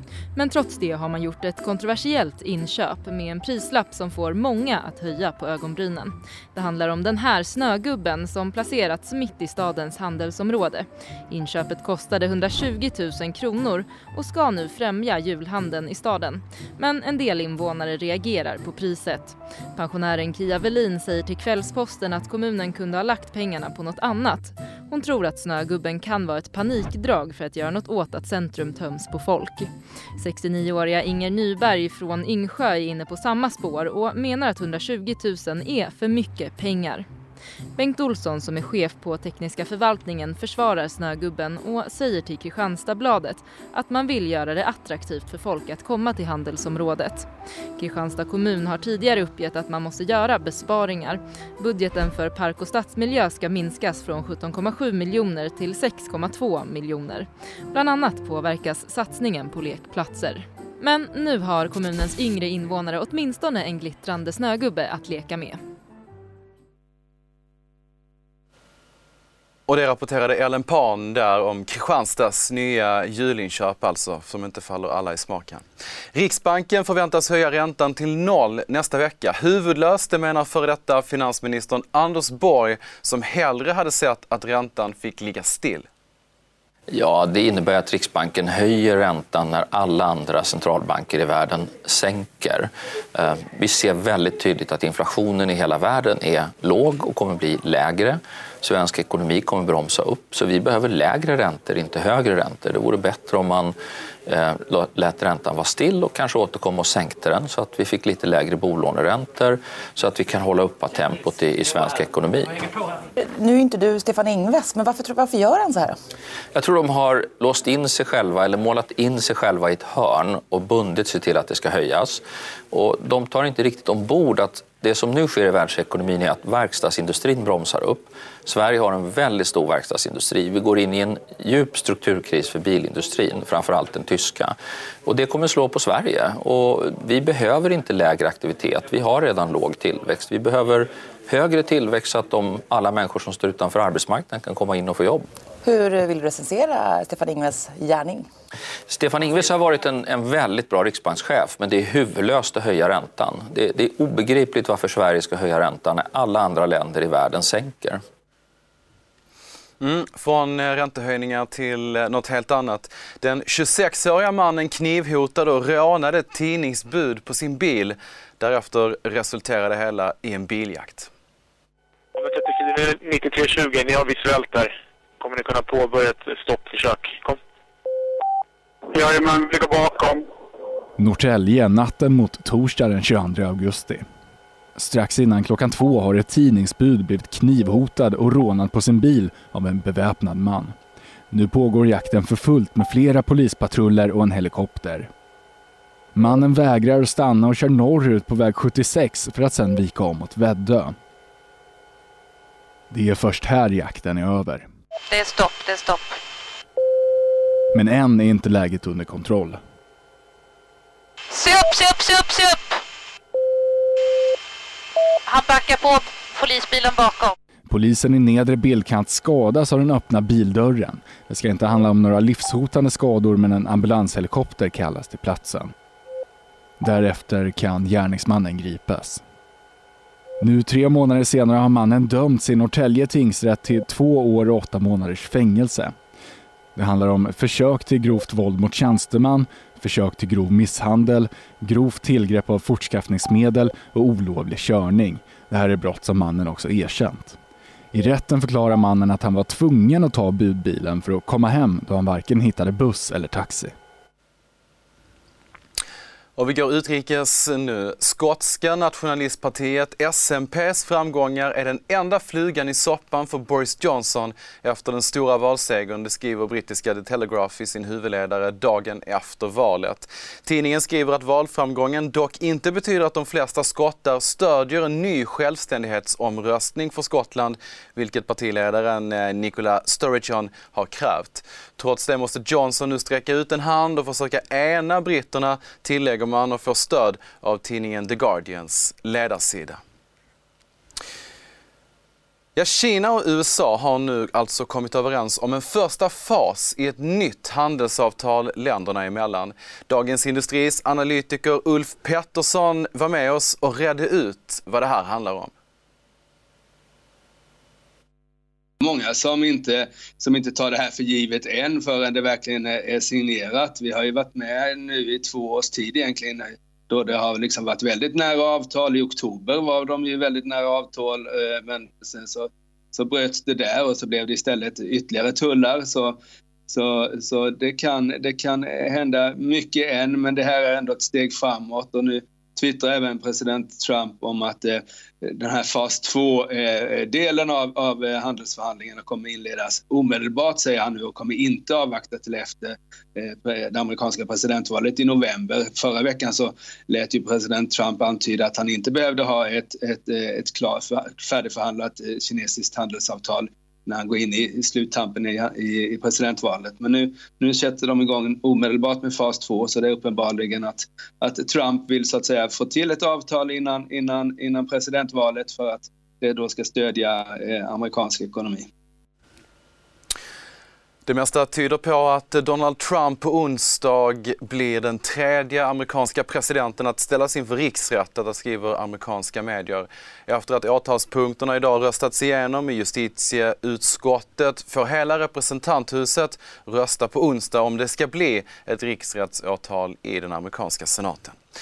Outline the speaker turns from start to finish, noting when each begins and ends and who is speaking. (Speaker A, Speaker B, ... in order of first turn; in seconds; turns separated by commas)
Speaker A: 0.3-37.1, Speaker A: 37.8-65.6, Speaker B: 69.7-75.6, Speaker B: 76.2-85.9, Speaker C: 86.9-103.8, Speaker C: 104.3-112.6, Speaker D: 113.2-116.0, Speaker C: 116.5-134.6, Speaker C: 135.1-145.2, Speaker D: 145.6-148.2, Speaker C: 148.9-158.0, Speaker B: 159.8-171.1, Speaker E: 172.2-177.4, Speaker E: 178.9-180.2, Speaker F: 181.0-184.0, Speaker F: 184.8-190.8, Speaker F: 191.3-195.1, Speaker F: 196.2-201.0, Speaker F: 202.9-204.7, Speaker G: 205.1-206.0, Speaker F: 207.7-209.6, Speaker G: 211.3-212.6, Speaker G: 215.3-217.3, Speaker F: 217.7-225.7, Speaker F: 226.8-229.2, Speaker F: 230.4-235.9, Speaker F: 236.8-247.4, Speaker F: 247.9-253.7, Speaker B: 256.4-289.8, Speaker B: 292.6-305.5, Speaker H: 308.8-368.7, Speaker B: 371.1-391.4